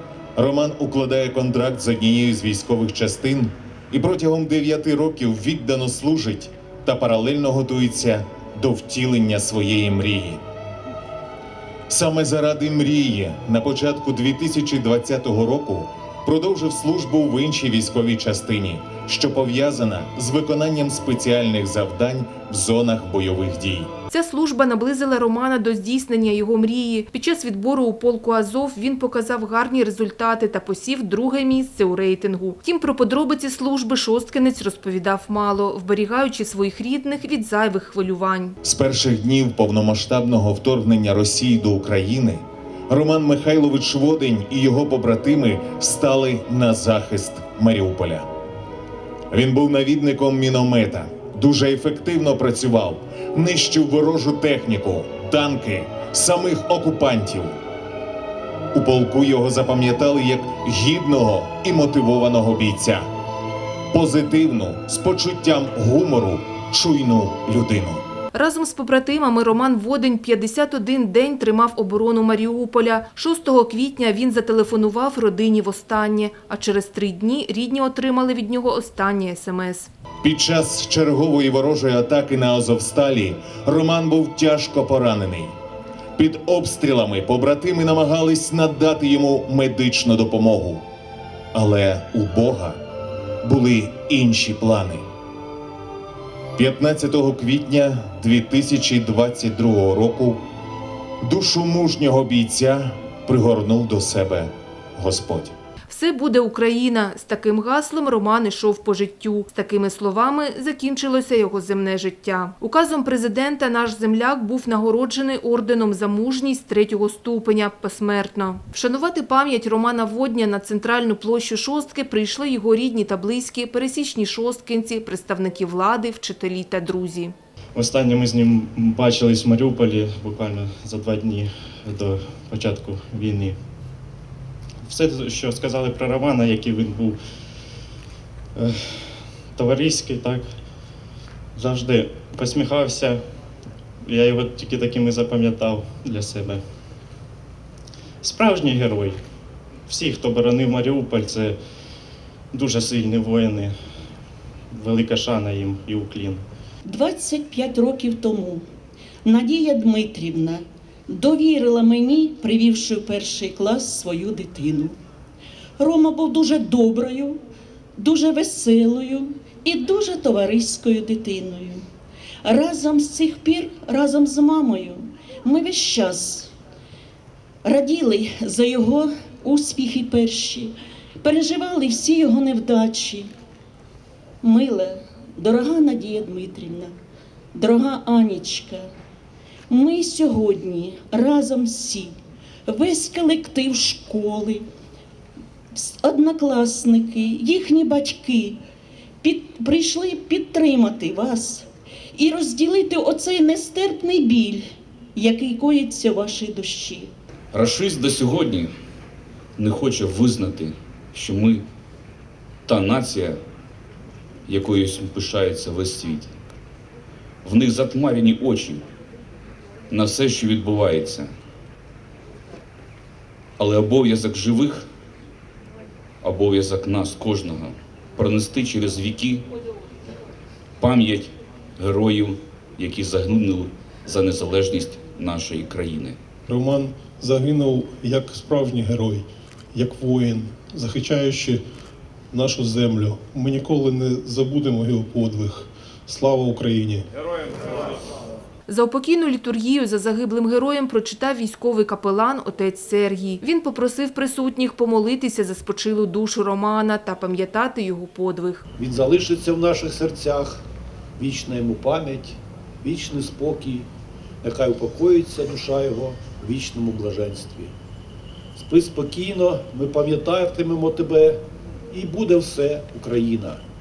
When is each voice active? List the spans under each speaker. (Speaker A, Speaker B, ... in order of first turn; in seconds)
Speaker A: 0.4-10.4, 11.9-23.9, 38.6-48.3, 49.3-57.5, 58.7-63.1, 63.9-68.0, 80.2-85.5, 86.2-90.8, 91.5-92.8, 93.4-95.0, 96.6-100.4, 101.2-105.5
Speaker B: 24.1-38.6, 68.3-79.9, 105.9-127.3, 248.7-258.6
Speaker C: 127.8-133.5, 134.9-137.1, 139.6-140.4, 141.6-143.1, 144.1-146.6, 148.2-149.1, 149.9-151.5, 152.5-153.7, 154.8-156.4
Speaker D: 156.8-158.7, 159.2-165.0, 165.8-167.4, 168.0-171.8, 172.4-176.5, 177.6-183.3, 184.4-187.0, 187.5-188.9, 189.7-194.7, 195.7-198.6, 199.2-207.1
Speaker E: 207.5-208.7, 209.6-211.7, 212.7-213.4, 214.5-216.3, 217.4-218.8, 219.9-221.3, 223.6-224.9, 226.2-229.4, 230.8-236.2
Speaker F: 236.5-241.6, 242.3-247.1
Speaker G: 258.8-260.6, 261.2-263.9, 264.4-267.7, 268.6-273.6